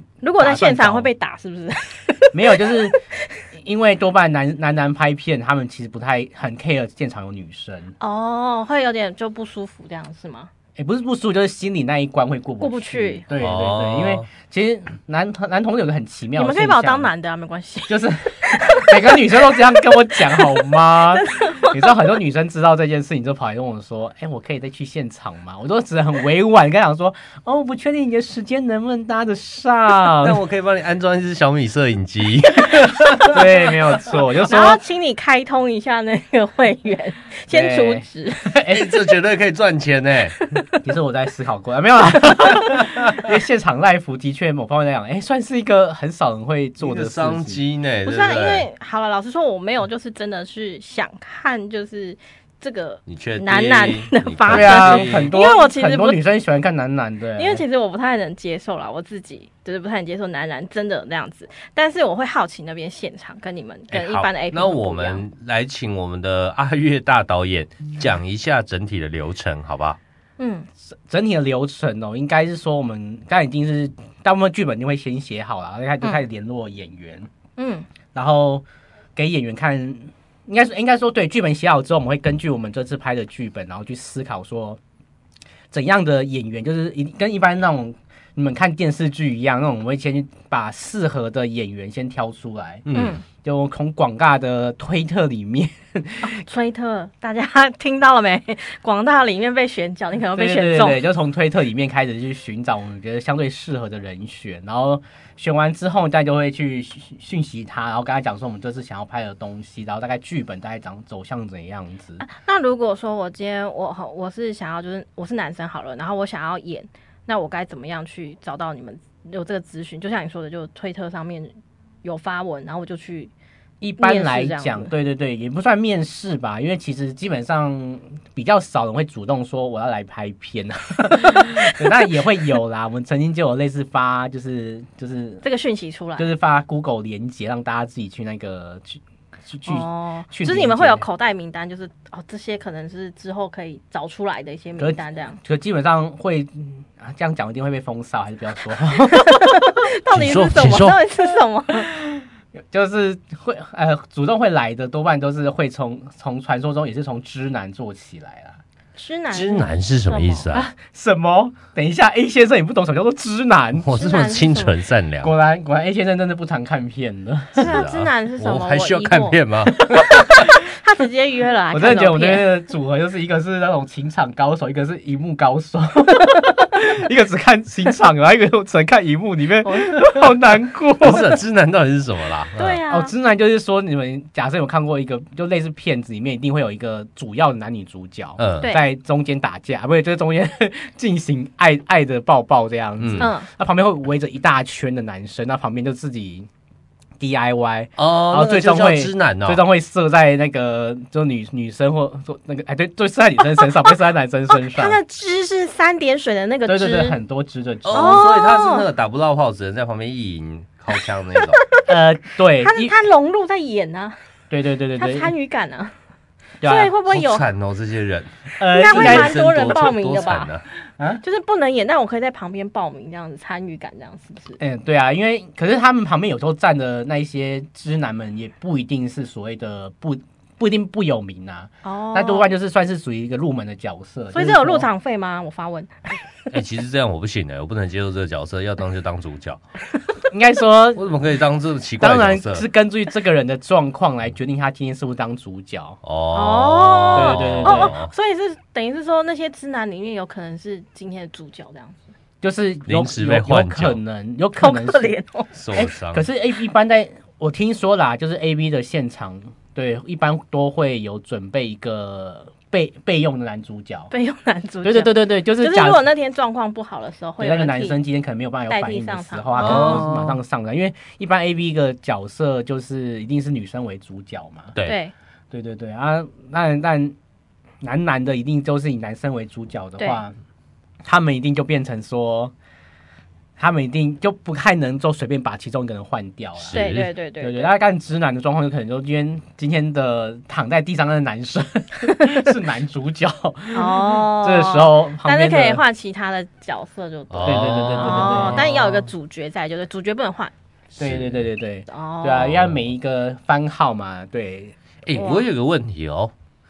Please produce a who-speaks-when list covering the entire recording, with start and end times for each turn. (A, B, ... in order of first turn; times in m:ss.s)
0:00.2-0:03.0 A
0:00.4-0:01.1 B
0:02.3-0:08.0 B
0:08.0-0:10.5 A
0:10.8-0:17.1 B
0:12.6-0:13.2 A
0:13.3-0:14.3 C
0:16.4-0:21.9 A
0:17.9-0:30.4 B
0:30.2-0:33.4 C
0:33.3-0:34.8 B
0:34.5-0:38.6 A
0:37.5-0:39.0 B
0:38.7-0:40.4 C
0:40.8-0:47.6 B
0:46.8-0:48.7 C
0:48.0-0:56.2 A
0:53.1-0:55.3 C
0:54.5-0:57.6 B
0:57.4-1:05.2 A
1:03.9-1:10.0 C
1:10.4-1:10.7 A
1:11.1-1:17.3 B
1:17.6-1:17.9 A
1:18.1-1:18.6 B
1:19.2-1:24.8 B
1:25.7-1:36.4 B
1:32.9-1:33.2 C
1:32.9-1:33.2 A
1:36.2-1:41.0 A
1:40.3-1:52.2 B
1:52.2-2:03.3 A
2:03.8-2:15.4 B
2:04.0-2:04.9 A
2:11.4-2:12.0 A
2:15.4-2:16.3 A
2:16.2-2:21.1 B
2:19.7-2:25.4 A
2:24.8-2:29.5 B
2:29.1-2:31.9 A
2:30.1-2:31.0 C
2:31.7-2:38.6 B
2:39.0-2:40.5 A
2:39.3-2:40.7 C
2:40.5-2:44.0 B
2:43.8-2:45.3 C
2:44.0-2:44.8 A
2:45.2-2:47.8 B
2:47.6-2:49.8 C
2:47.6-2:52.5 A
2:49.9-2:50.5 B
2:51.7-3:01.4 B
2:59.6-3:00.2 A
3:01.0-3:02.8 C
3:02.6-3:03.1 A
3:02.9-3:16.5 B
3:08.4-3:08.7 C
3:13.0-3:13.3 C
3:13.2-3:13.5 A
3:17.2-3:25.0 B
3:18.0-3:19.6 C
3:24.5-3:27.2 A
3:26.7-3:28.3 B
3:27.8-3:31.6 C
3:27.9-3:28.8 A
3:31.9-3:32.9 B
3:32.6-3:34.2 A
3:34.5-3:35.3 B
3:35.0-3:35.9 A
3:36.6-3:36.9 B
3:36.6-3:37.5 A
3:37.1-3:40.6 C
3:38.6-3:39.4 B
3:38.7-3:40.5 A
3:41.0-3:41.2 B
3:41.2-3:44.6 A
3:44.6-3:54.9 B
3:51.8-3:52.5 A
3:54.3-3:55.9 A
3:56.5-3:59.6 C
4:00.3-4:01.1 B
4:01.0-4:02.7 C
4:02.0-4:06.0 B
4:06.0-4:08.1 C
4:06.3-4:12.1 A
4:07.1-4:07.9 B
4:12.4-4:15.2 B
4:12.9-4:14.0 C
4:14.6-4:15.5 A
4:15.6-4:16.3 C
4:15.7-4:24.1 B
4:24.1-4:28.0 A
4:24.8-4:26.0 B
4:27.4-4:34.8 B
4:28.7-4:30.2 A
4:29.6-4:30.2 C
4:34.8-4:35.1 A
4:35.5-4:37.2 B
4:37.8-4:40.4 B
4:41.0-4:42.5 B
4:43.6-4:55.8 B
4:46.6-4:47.1 C
4:46.7-4:47.7 A
4:53.7-5:00.5 A
4:57.3-4:59.0 C
4:57.4-4:58.7 B
5:00.9-5:01.5 C
5:01.0-5:04.8 B
5:01.9-5:02.5 A
5:02.4-5:02.8 C
5:05.0-5:06.3 C
5:05.1-5:05.4 A